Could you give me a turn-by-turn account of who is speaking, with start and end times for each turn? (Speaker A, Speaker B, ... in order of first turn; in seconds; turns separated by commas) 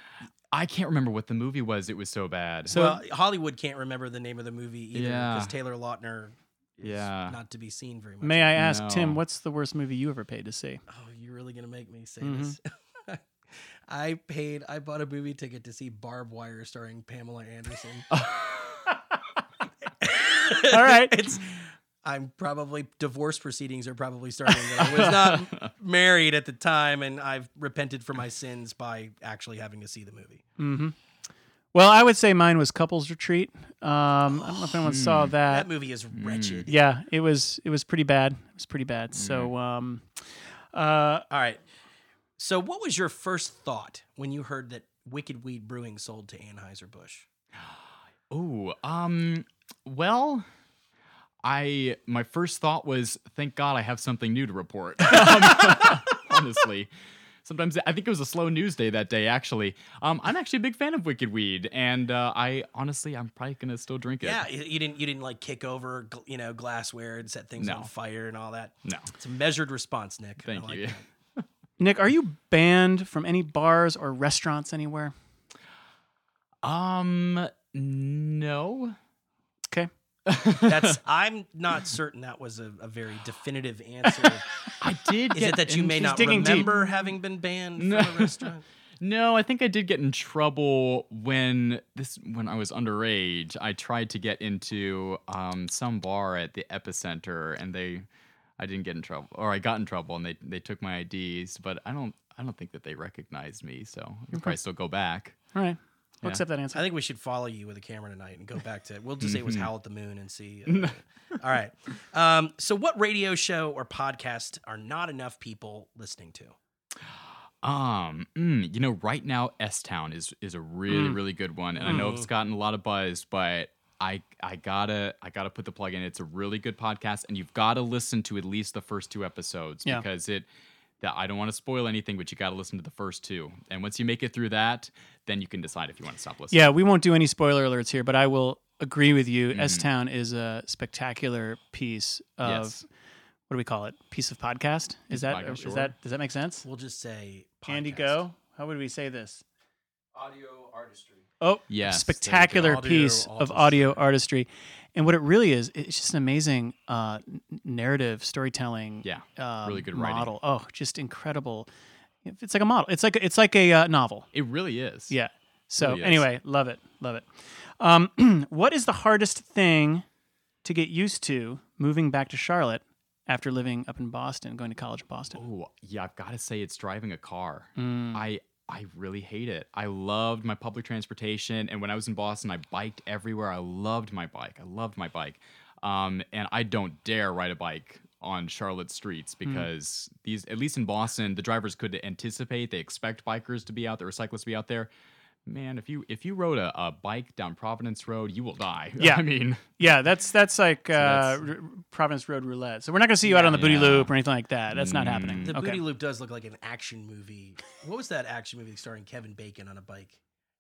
Speaker A: 0.5-2.8, Speaker B: 2.7-3.0, Speaker C: 2.7-8.6, Speaker A: 4.9-5.5, Speaker A: 6.8-7.4, Speaker B: 8.2-10.8, Speaker A: 8.6-9.2, Speaker C: 10.9-18.1, Speaker B: 12.2-12.6, Speaker A: 18.1-18.8, Speaker C: 20.0-30.4, Speaker B: 20.6-21.3, Speaker A: 24.8-25.7, Speaker B: 30.6-31.0, Speaker B: 31.7-35.7, Speaker C: 34.3-34.8, Speaker A: 34.8-35.4, Speaker C: 35.5-36.8, Speaker A: 36.1-36.7, Speaker B: 36.7-41.3, Speaker A: 39.1-39.5, Speaker C: 41.3-41.6, Speaker C: 42.4-47.3, Speaker A: 48.3-50.5, Speaker A: 51.4-56.9, Speaker A: 57.4-64.5, Speaker C: 64.2-71.0, Speaker A: 67.6-67.9, Speaker A: 68.8-69.1, Speaker A: 70.5-71.4, Speaker B: 71.8-75.1, Speaker A: 76.6-79.0, Speaker A: 80.3-81.0, Speaker C: 80.7-84.7, Speaker A: 84.8-87.0, Speaker C: 85.3-88.7, Speaker B: 86.0-86.7, Speaker A: 87.8-98.1, Speaker A: 98.6-105.4, Speaker B: 105.5-106.8, Speaker C: 106.7-116.6, Speaker A: 109.2-109.7, Speaker A: 110.7-111.0, Speaker A: 117.0-130.5, Speaker B: 120.9-121.2, Speaker C: 121.8-122.3, Speaker B: 121.8-122.1, Speaker A: 131.0-136.6, Speaker B: 136.5-142.8, Speaker A: 139.5-139.9, Speaker A: 142.4-142.8, Speaker B: 143.5-146.7, Speaker A: 145.1-145.9, Speaker C: 146.6-148.2, Speaker B: 147.7-149.4, Speaker B: 151.4-161.7, Speaker A: 151.7-152.3, Speaker C: 152.3-154.0, Speaker A: 159.0-160.3, Speaker B: 162.2-164.3, Speaker A: 164.3-165.2, Speaker B: 165.1-170.1, Speaker A: 165.8-166.2, Speaker B: 170.6-175.4, Speaker A: 175.3-194.9, Speaker B: 177.8-178.2, Speaker A: 195.5-199.7, Speaker B: 199.0-199.2, Speaker B: 199.8-205.8, Speaker A: 200.9-201.4, Speaker C: 203.3-203.8, Speaker A: 203.5-204.1, Speaker A: 204.7-205.5, Speaker C: 205.5-210.2